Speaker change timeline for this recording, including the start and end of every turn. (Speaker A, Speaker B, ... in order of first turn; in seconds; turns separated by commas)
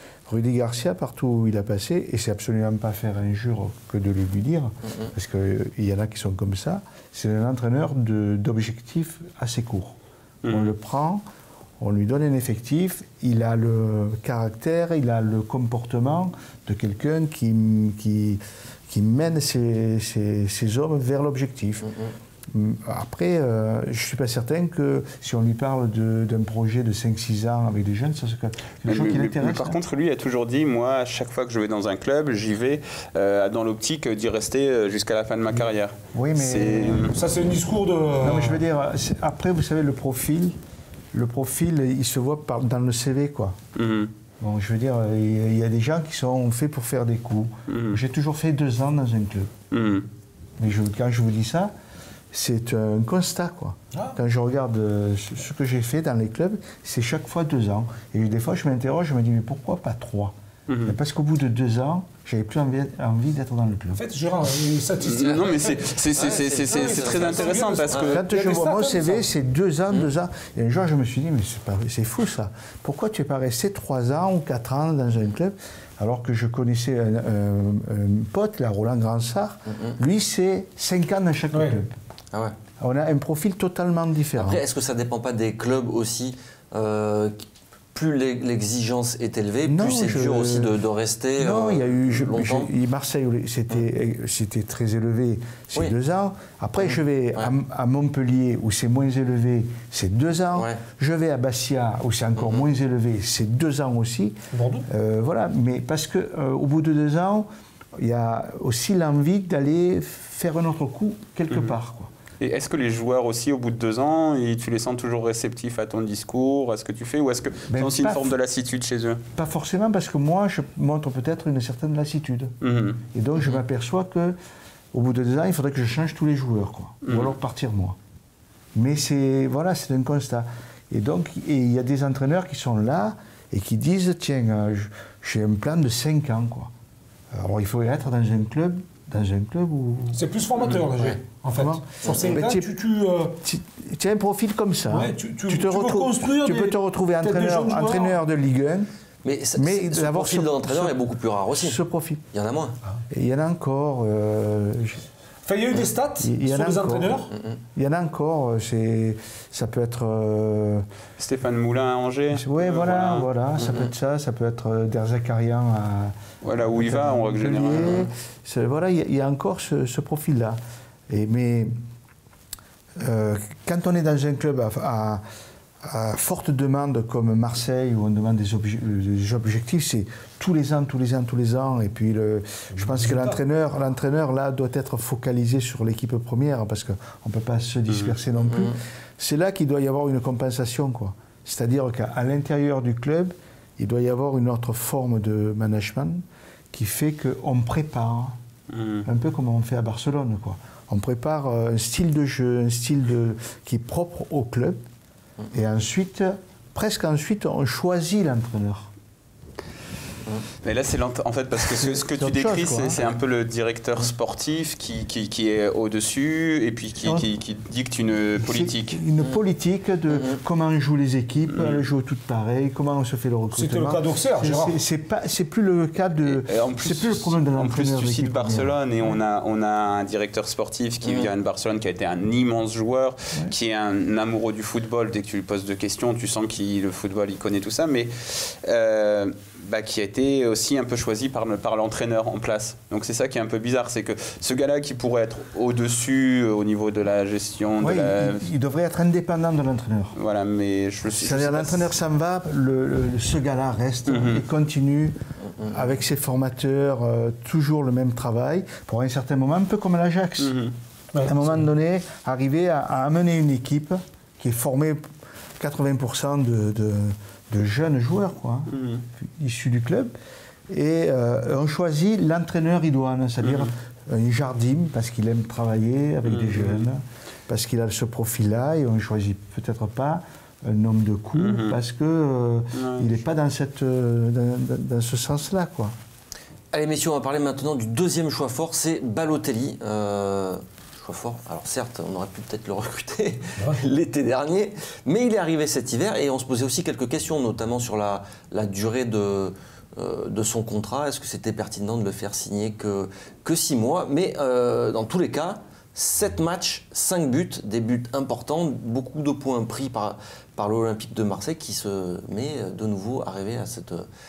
Speaker A: 0.3-10.0, Speaker B: 10.4-10.7, Speaker A: 10.5-11.2, Speaker A: 11.8-21.9, Speaker C: 21.9-22.1, Speaker A: 22.5-29.8, Speaker B: 28.9-37.1, Speaker A: 36.1-37.1, Speaker D: 37.1-38.6, Speaker A: 38.2-40.6, Speaker A: 41.1-43.6, Speaker B: 43.7-44.1, Speaker A: 44.4-49.5, Speaker B: 47.7-48.0, Speaker B: 49.7-50.1, Speaker A: 50.6-51.7, Speaker A: 52.3-60.3, Speaker B: 60.7-61.0, Speaker A: 60.9-64.0, Speaker D: 63.9-66.0, Speaker B: 65.0-68.2, Speaker C: 66.1-68.2, Speaker D: 66.7-69.3, Speaker A: 68.1-81.9, Speaker C: 79.7-80.0, Speaker A: 82.8-84.6, Speaker C: 84.3-87.3, Speaker C: 87.9-92.7, Speaker A: 89.7-90.7, Speaker A: 91.4-104.3, Speaker C: 96.8-97.5, Speaker C: 100.5-100.8, Speaker C: 102.4-102.6, Speaker D: 104.5-104.9, Speaker A: 104.9-107.5, Speaker A: 108.0-112.1, Speaker B: 112.4-119.2, Speaker A: 117.7-118.3, Speaker A: 119.3-122.5, Speaker B: 122.6-123.0, Speaker A: 123.1-124.4, Speaker A: 124.9-128.0, Speaker B: 127.0-127.3, Speaker A: 128.7-136.7, Speaker A: 137.3-140.2, Speaker D: 140.1-143.4, Speaker A: 141.6-142.7, Speaker A: 143.4-148.9, Speaker D: 144.9-148.2, Speaker C: 149.2-151.8, Speaker A: 149.6-150.9, Speaker A: 151.5-152.2, Speaker C: 152.3-152.8, Speaker A: 153.1-155.0, Speaker D: 155.4-157.3, Speaker A: 156.2-157.2, Speaker C: 157.3-157.6, Speaker A: 157.7-160.8, Speaker B: 161.2-163.3, Speaker A: 162.3-171.7, Speaker C: 163.6-163.9, Speaker B: 166.4-168.1, Speaker A: 173.0-175.2, Speaker A: 175.8-198.4, Speaker D: 182.7-183.4, Speaker B: 187.9-188.1, Speaker C: 188.5-188.8, Speaker B: 198.7-199.1, Speaker A: 199.0-204.8, Speaker A: 205.5-208.9, Speaker B: 210.6-219.0, Speaker A: 211.7-213.0, Speaker A: 217.0-217.3, Speaker A: 218.4-229.2, Speaker C: 220.1-220.4, Speaker B: 221.5-221.8, Speaker D: 223.5-224.8, Speaker B: 226.2-248.4, Speaker C: 231.1-231.3, Speaker A: 247.8-250.2, Speaker B: 250.2-251.9, Speaker A: 251.0-260.6, Speaker B: 254.1-254.4, Speaker B: 260.4-260.7, Speaker D: 261.1-261.6, Speaker A: 261.2-265.1, Speaker A: 265.6-270.1, Speaker B: 268.7-269.0, Speaker A: 270.7-285.9, Speaker B: 273.4-273.7, Speaker B: 276.2-276.9, Speaker B: 281.4-281.8, Speaker B: 282.7-283.2, Speaker C: 286.7-314.1